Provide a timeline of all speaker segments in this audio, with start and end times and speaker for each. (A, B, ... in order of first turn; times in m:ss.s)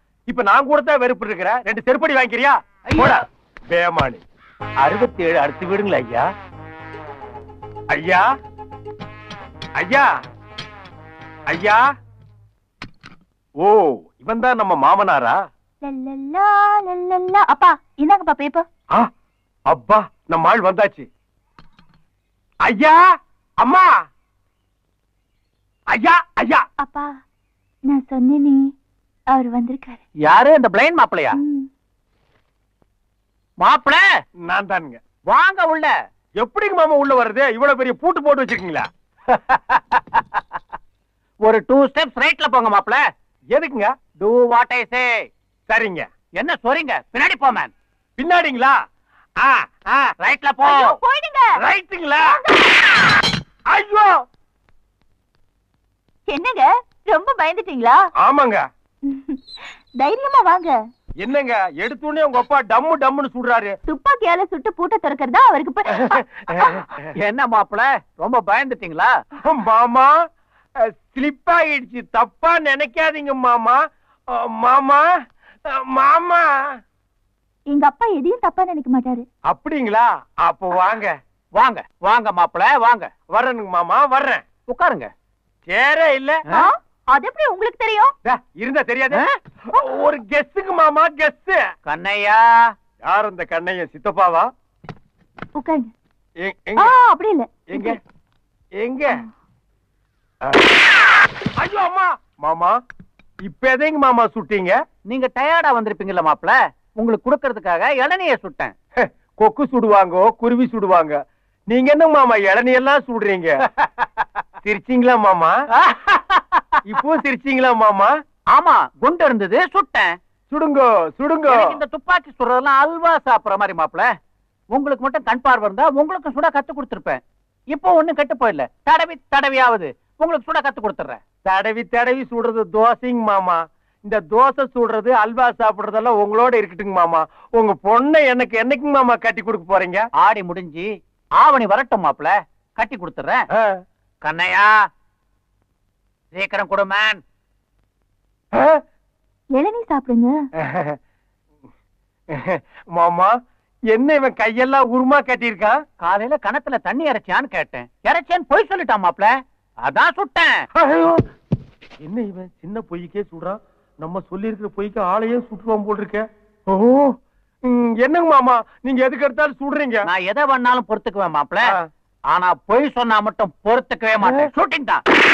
0:00.3-0:04.2 A
0:04.8-0:06.3 A
0:07.9-0:08.2 A
0:09.8-0:10.1 A
0:11.5-0:11.8 A
0:13.6-0:15.4 A
0:15.8-0:18.7 B
0:19.7-0:21.1 A
0:22.6-0:23.0 A
0:23.6-0:23.9 A
0:25.9-0:26.6 A
0:26.8-0:27.1 B
0:27.9-0:28.7 B
0:29.3-0:30.0 B
0:30.2-0:31.4 C
0:31.4-0:31.7 B
0:33.6-0:34.0 C
0:34.5-0:35.0 A
0:35.3-0:35.9 C
0:36.4-0:38.9 A
0:39.4-0:40.4 C
0:41.5-0:43.0 C
0:43.5-0:43.9 A
0:44.2-0:45.1 C
0:45.7-0:46.0 A
0:46.4-0:47.7 C
0:48.2-0:48.8 A
0:49.4-0:50.1 A
0:50.2-0:51.0 C
0:50.7-0:51.6 B
0:51.6-0:52.4 A
0:52.4-0:53.0 B
0:53.7-0:54.1 A
0:56.3-0:58.0 B
0:58.2-0:58.6 A
0:59.0-1:00.7 B
1:01.2-1:03.8 A
1:03.9-1:06.8 B
1:05.9-1:07.1 A
1:07.2-1:09.1 C
1:09.5-1:10.1 A
1:10.9-1:13.8 A
1:14.3-1:15.0 A
1:15.7-1:16.5 A
1:17.7-1:19.3 B
1:19.5-1:21.2 A
1:21.6-1:23.1 C
1:23.3-1:24.4 A
1:24.7-1:25.1 C
1:25.7-1:26.4 A
1:26.6-1:28.2 B
1:28.2-1:31.6 A
1:31.9-1:32.4 C
1:33.0-1:34.5 A
1:35.6-1:35.9 B
1:36.4-1:37.0 A
1:36.8-1:38.0 B
1:37.7-1:38.0 A
1:38.8-1:39.2 A
1:40.4-1:40.8 A
1:41.6-1:42.8 A
1:43.4-1:44.8 A
1:45.1-1:48.7 C
1:49.0-1:51.2 A
1:51.7-1:53.6 A
1:54.6-1:55.5 A
1:56.0-1:56.4 C
1:56.8-1:58.1 A
1:58.6-2:00.1 C
2:00.5-2:01.8 A
2:01.7-2:04.1 C
2:04.8-2:07.2 C
2:07.7-2:11.0 C
2:11.4-2:20.1 A
2:20.2-2:20.9 C
2:21.4-2:23.4 C
2:24.2-2:24.7 C
2:26.3-2:27.2 C
2:29.6-2:30.3 B
2:30.6-2:31.0 A
2:32.4-2:33.3 A
2:33.9-2:35.8 A
2:36.0-2:39.3 C
2:39.9-2:40.5 C
2:40.8-2:41.2 A
2:42.0-2:47.1 A
2:47.7-2:50.1 A
2:50.1-2:51.5 C
2:52.3-2:55.0 C
2:54.2-2:54.5 A